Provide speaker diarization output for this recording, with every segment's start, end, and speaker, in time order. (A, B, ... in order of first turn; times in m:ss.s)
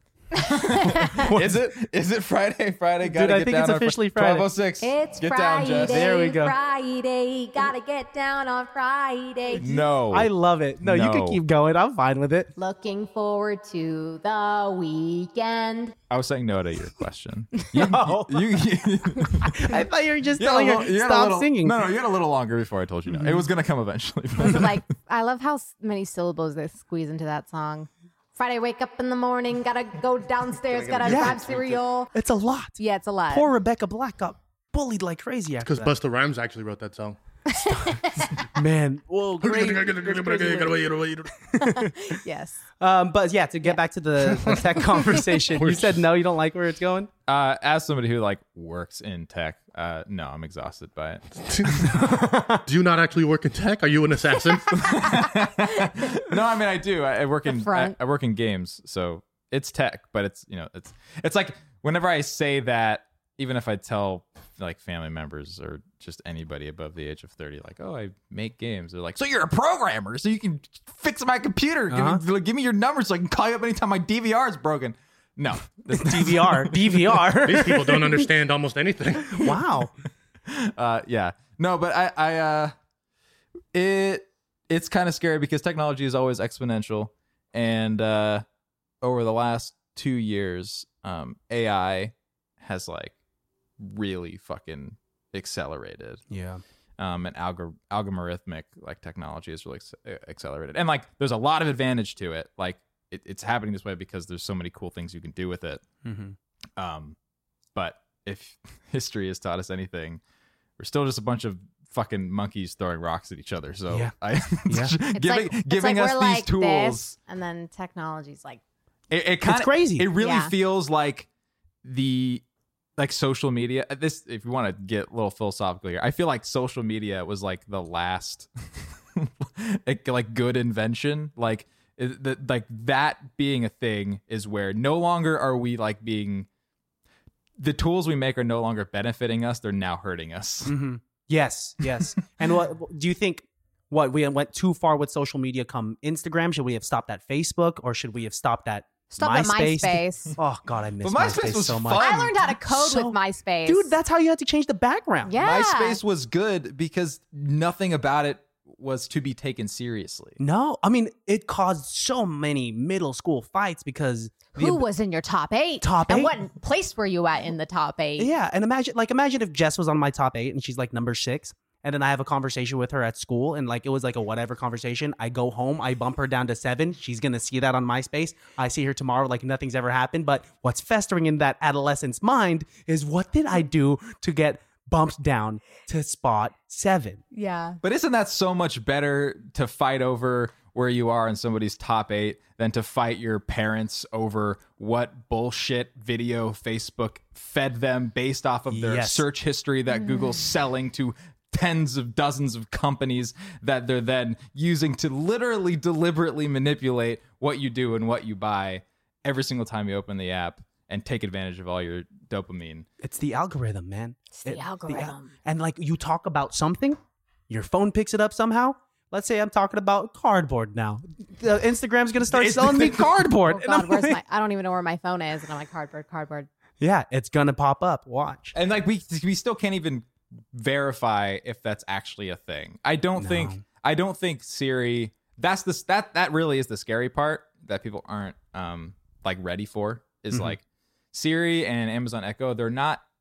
0:00.4-0:06.1 A
0:00.5-0:01.3 B
0:01.3-0:01.6 C
0:03.0-0:04.4 C
0:04.8-0:09.6 B
0:05.8-0:06.6 C
0:09.5-0:12.5 C
0:09.6-0:10.3 A
0:10.8-0:11.4 A
0:12.6-0:15.9 B
0:16.1-0:19.7 A
0:17.7-0:18.6 C
0:19.4-0:21.8 C
0:20.4-0:24.8 A
0:23.1-0:23.4 C
0:24.4-0:32.1 B
0:30.8-0:31.1 A
0:31.0-0:31.4 C
0:32.1-0:32.8 C
0:32.8-0:33.5 B
0:33.3-0:35.9 C
0:35.6-0:37.2 D
0:37.5-0:38.5 B
0:38.5-0:40.8 C
0:39.4-0:41.5 D
0:41.5-0:41.9 C
0:41.6-0:42.6 B
0:42.8-0:47.1 C
0:44.3-0:45.0 D
0:45.5-0:46.0 D
0:47.3-0:51.2 A
0:51.4-0:52.0 D
0:51.9-0:52.6 C
0:52.6-0:55.0 D
0:54.7-1:17.1 A
0:57.5-0:57.9 B
1:11.9-1:12.2 C
1:15.9-1:18.3 C
1:17.4-1:19.5 D
1:19.3-1:19.9 C
1:20.5-1:22.7 A
1:23.7-1:28.4 A
1:29.0-1:33.1 A
1:33.8-1:36.2 A
1:36.3-1:36.6 C
1:37.0-1:45.8 A
1:46.0-1:46.4 C
1:46.8-1:47.2 A
1:47.7-1:50.2 A
1:50.8-1:57.1 A
1:54.7-1:55.0 C
1:55.1-1:58.6 B
1:59.1-2:01.3 A
1:59.4-2:00.1 C
2:00.2-2:00.5 B
2:01.8-2:02.4 A
2:03.0-2:16.5 A
2:17.6-2:20.7 A
2:20.6-2:35.3 C
2:29.1-2:30.4 B
2:31.0-2:32.4 A
2:31.9-2:33.9 B
2:35.2-2:36.0 B
2:35.4-2:40.4 A
2:40.4-2:44.8 C
2:44.5-2:48.3 B
2:45.8-2:46.3 C
2:48.2-3:07.2 C
3:07.3-3:07.8 B
3:07.8-3:32.9 A
3:18.7-3:19.2 C
3:19.9-3:20.4 B
3:33.0-3:37.0 C
3:34.3-3:35.3 B
3:37.5-3:44.2 C
3:42.3-3:43.1 A
3:43.5-3:46.5 B
3:46.8-3:48.5 C
3:48.5-4:00.6 A
3:53.2-3:53.6 C
4:01.1-4:03.0 A